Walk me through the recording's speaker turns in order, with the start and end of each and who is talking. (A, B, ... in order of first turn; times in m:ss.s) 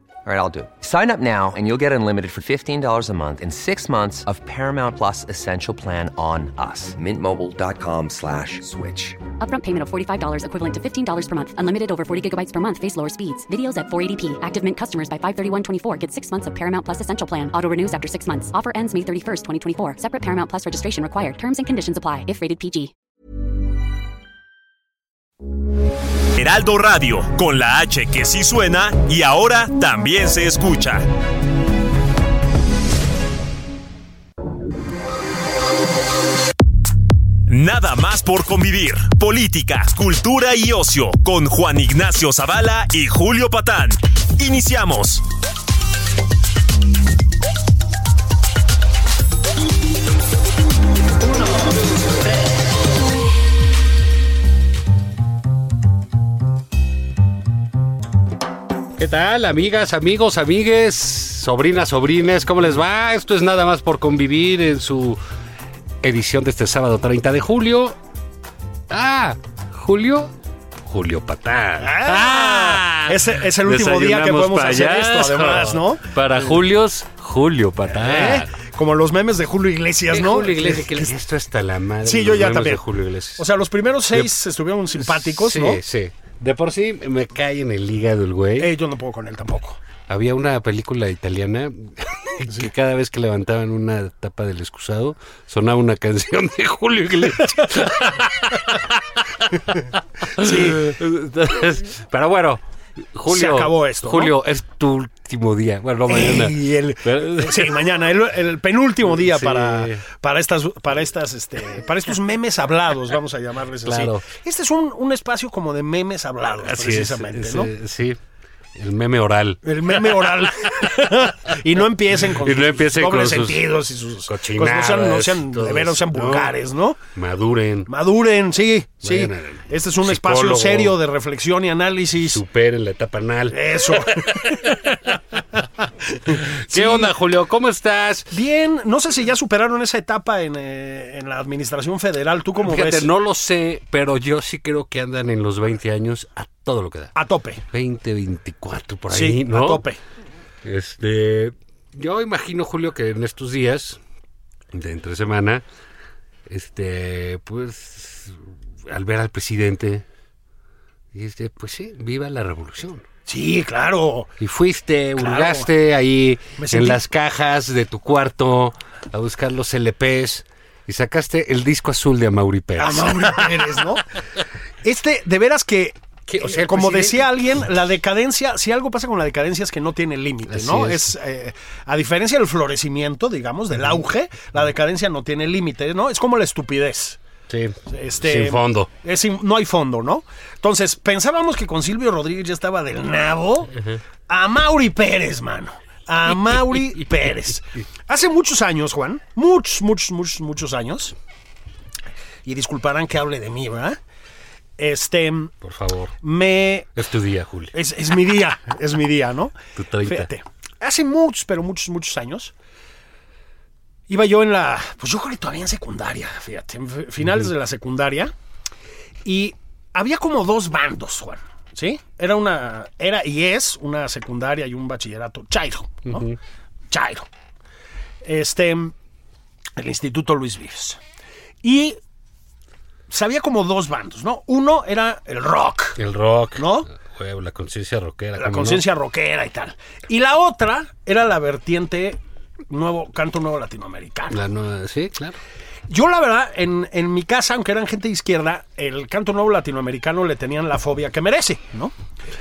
0:00.2-0:09.2 A
0:09.4-0:22.9 B
0:26.4-0:31.0 C
0:37.5-0:45.2 C
0:59.0-1:05.2 D
1:06.0-1:08.0 D
1:08.9-1:10.3 D
1:10.8-1:18.5 D
1:11.8-1:16.1 E
1:17.9-1:21.1 E
1:20.1-1:23.5 D
1:22.0-1:22.8 E
1:23.4-1:25.8 E
1:25.0-1:28.7 D
1:28.6-1:29.8 E
1:30.1-1:42.6 D
1:37.6-1:37.8 E
1:40.4-1:40.9 E
1:43.1-1:47.8 D
1:43.3-1:44.4 E
1:46.1-1:57.7 E
1:49.0-1:50.0 D
1:53.8-1:54.2 D
1:56.6-1:58.2 D
1:58.8-2:00.9 D
1:59.6-2:07.0 E
2:02.2-2:03.7 D
2:04.3-2:06.5 D
2:07.1-2:07.9 D
2:07.9-2:12.4 E
2:09.0-2:11.0 D
2:12.2-2:15.6 D
2:13.5-2:14.9 E
2:16.2-2:18.4 D
2:16.3-2:17.1 E
2:18.3-2:23.1 E
2:22.6-2:27.1 D
2:27.1-2:27.6 E
2:27.7-2:29.8 D
2:29.1-2:30.0 E
2:30.6-2:34.0 D
2:34.7-2:35.6 D
2:36.5-2:40.0 D
2:41.1-2:43.0 D
2:43.3-2:44.3 E
2:44.4-2:53.8 D
2:45.2-2:45.7 E
2:46.6-2:47.0 E
2:52.8-2:54.0 E
2:54.8-3:07.2 E
2:56.3-2:57.3 D
3:00.5-3:01.1 D
3:07.5-3:08.9 D
3:07.9-3:13.8 E
3:14.3-3:21.1 E
3:22.4-3:24.0 E
3:24.8-3:25.5 E
3:25.6-3:26.1 D
3:26.2-3:26.9 E
3:26.9-3:27.7 D
3:27.7-3:32.5 E
3:29.8-3:30.3 D
3:34.1-3:38.3 E
3:39.2-3:46.3 E
3:46.0-3:46.4 D
3:46.9-3:47.3 E
3:48.2-3:48.9 E
3:49.8-3:51.0 E
3:51.6-3:52.0 E
3:53.1-3:56.0 E
3:56.0-3:58.8 D
3:56.6-3:56.9 E
3:58.4-4:02.2 E
4:02.7-4:04.4 E
4:04.3-4:05.4 D
4:05.9-4:11.9 E